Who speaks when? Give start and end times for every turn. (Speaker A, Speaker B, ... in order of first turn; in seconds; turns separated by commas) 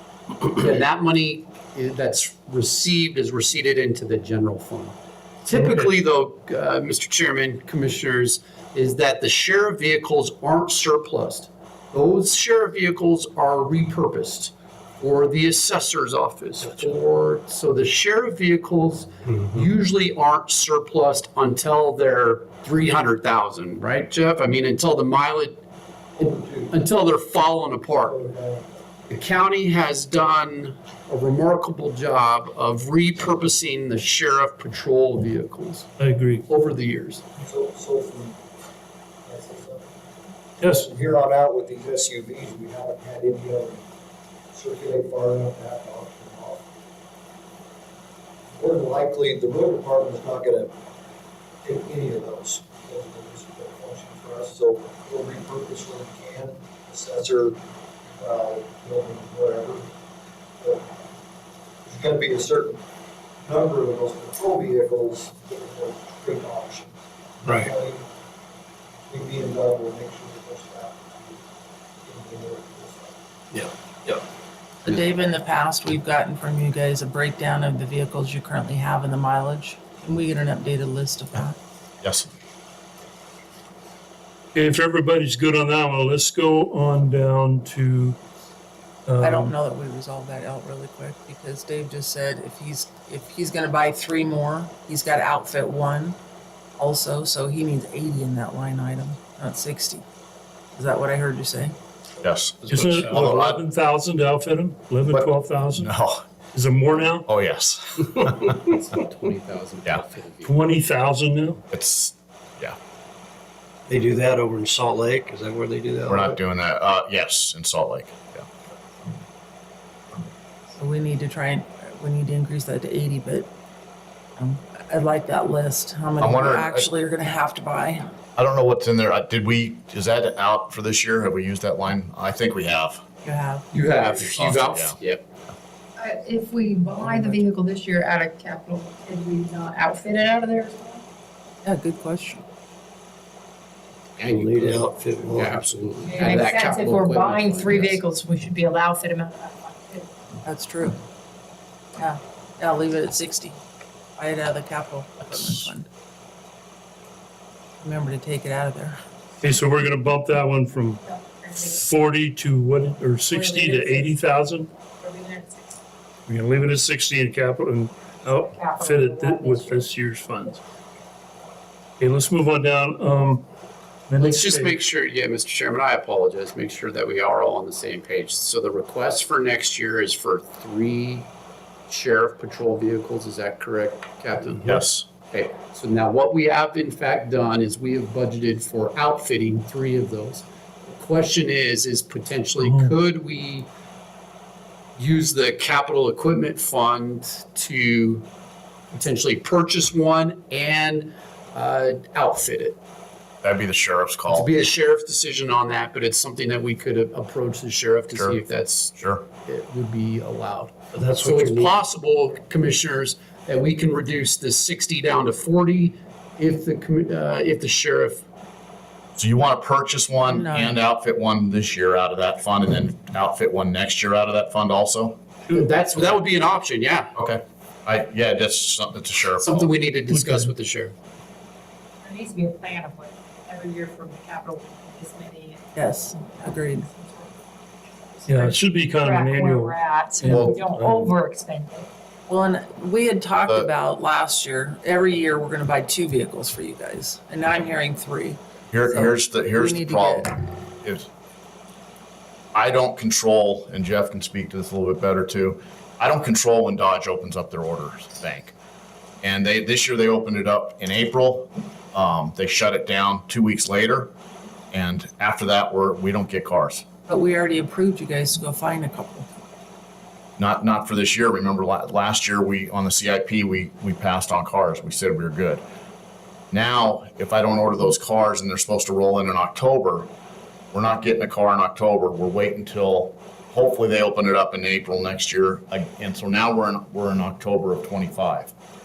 Speaker A: 0.4-25.6, Speaker B: 5.5-5.9, Speaker C: 26.2-26.7, Speaker A: 26.2-28.2, Speaker C: 27.9-28.7, Speaker A: 29.1-35.9, Speaker B: 36.0-36.4, Speaker A: 36.4-37.2, Speaker C: 37.4-38.4, Speaker C: 39.2-39.9, Speaker B: 40.6-40.9, Speaker C: 40.6-43.8, Speaker C: 44.5-46.6, Speaker C: 48.5-50.7, Speaker C: 51.6-59.9, Speaker C: 60.6-60.9, Speaker C: 61.9-62.8, Speaker C: 63.4-66.9, Speaker D: 67.4-67.7, Speaker C: 67.4-68.1, Speaker C: 69.0-71.4, Speaker C: 72.0-73.2, Speaker D: 73.5-74.2, Speaker E: 74.8-81.5, Speaker F: 82.0-82.3, Speaker B: 84.5-88.2, Speaker B: 89.1-89.5, Speaker E: 89.2-96.2, Speaker E: 96.8-100.0, Speaker E: 100.7-101.7, Speaker F: 102.2-103.6, Speaker B: 102.7-105.9, Speaker D: 102.7-103.1, Speaker F: 105.1-106.2, Speaker B: 106.5-107.3, Speaker F: 107.2-108.7, Speaker A: 108.6-110.6, Speaker B: 110.4-111.6, Speaker F: 111.7-112.8, Speaker D: 113.9-116.3, Speaker F: 116.1-118.5, Speaker E: 120.8-123.5, Speaker E: 124.4-128.1, Speaker F: 126.2-126.9, Speaker F: 128.3-133.0, Speaker E: 133.2-133.7, Speaker A: 133.7-135.2, Speaker F: 134.2-135.0, Speaker G: 136.0-141.0, Speaker E: 137.1-137.3, Speaker E: 141.6-142.4, Speaker A: 144.2-148.0, Speaker D: 144.2-146.2, Speaker G: 146.0-150.1, Speaker E: 150.4-151.0, Speaker E: 152.0-153.6, Speaker E: 154.2-155.9, Speaker E: 157.8-159.0, Speaker B: 159.4-161.0, Speaker G: 161.0-161.8, Speaker B: 161.6-164.7, Speaker G: 163.3-164.2, Speaker G: 165.0-165.8, Speaker B: 166.3-170.6, Speaker G: 168.3-169.8, Speaker B: 172.0-173.4, Speaker B: 174.1-174.7, Speaker A: 174.2-181.3, Speaker A: 181.9-193.7, Speaker F: 184.6-185.1, Speaker B: 192.6-192.9, Speaker A: 195.0-198.3, Speaker A: 198.9-202.8, Speaker F: 203.4-204.5, Speaker A: 204.3-218.2, Speaker F: 208.1-208.4, Speaker F: 208.9-209.2, Speaker D: 210.9-211.8, Speaker F: 219.2-225.2, Speaker E: 220.2-220.8, Speaker A: 225.5-227.1, Speaker F: 227.1-229.7, Speaker A: 229.4-230.9, Speaker B: 230.1-230.5, Speaker G: 232.0-237.3, Speaker E: 235.7-236.9, Speaker G: 238.1-241.9, Speaker B: 238.3-241.1, Speaker F: 240.2-240.5, Speaker E: 242.3-250.3, Speaker F: 243.4-243.7, Speaker F: 248.7-251.1, Speaker F: 252.5-258.5, Speaker F: 259.2-264.1, Speaker F: 264.7-266.8, Speaker E: 267.1-269.3, Speaker F: 270.4-275.6, Speaker F: 276.5-280.1, Speaker F: 280.7-288.5